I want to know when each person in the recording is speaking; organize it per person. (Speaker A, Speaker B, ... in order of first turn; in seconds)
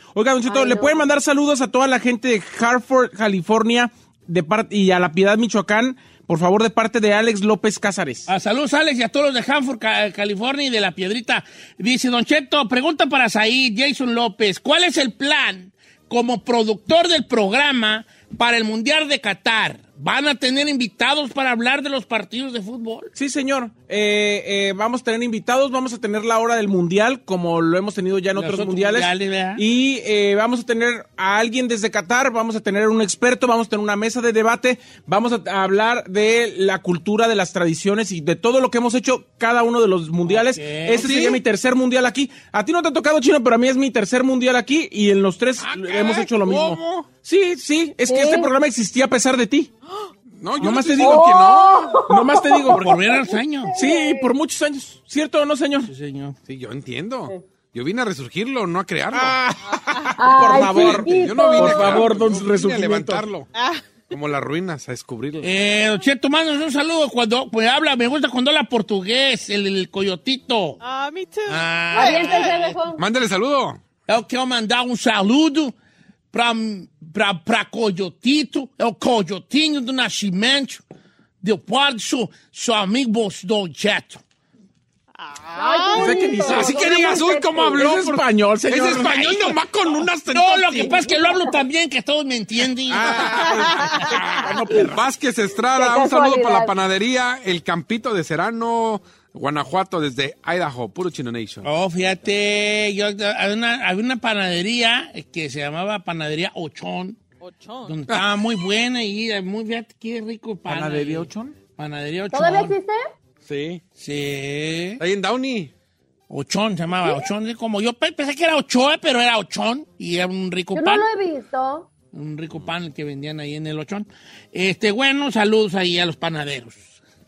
Speaker A: 0.1-8.3, 23.1-49.7, 50.6-51.3, 52.1-52.9, 53.7-55.9, 59.1-63.2, 85.9-87.0, 87.8-89.3, 92.9-95.0, 110.7-111.5
Speaker B: 0.4-1.1, 48.0-48.5, 51.0-52.9, 53.7-54.3, 60.2-62.1, 71.9-73.0, 85.5-87.8, 95.7-96.7, 112.3-113.0, 120.7-121.9
Speaker C: 8.3-23.1, 28.3-29.6, 40.2-41.0, 52.7-53.7, 55.8-56.4, 65.4-70.8, 71.5-72.7, 74.1-75.7, 76.3-80.8, 81.4-84.2, 89.0-89.6, 90.3-94.8, 101.6-107.2, 107.8-112.7, 114.0-115.0, 116.3-121.0, 122.1-127.0
Speaker D: 41.0-41.4, 45.6-47.1, 50.3-52.0, 56.5-59.4, 60.6-63.5, 64.1-65.6, 72.9-73.8, 86.4-91.0, 92.9-101.7, 113.4-113.8, 115.0-115.7
Speaker E: 59.7-60.2, 63.5-63.9, 70.8-72.6, 85.2-86.3, 93.6-93.9, 107.4-107.9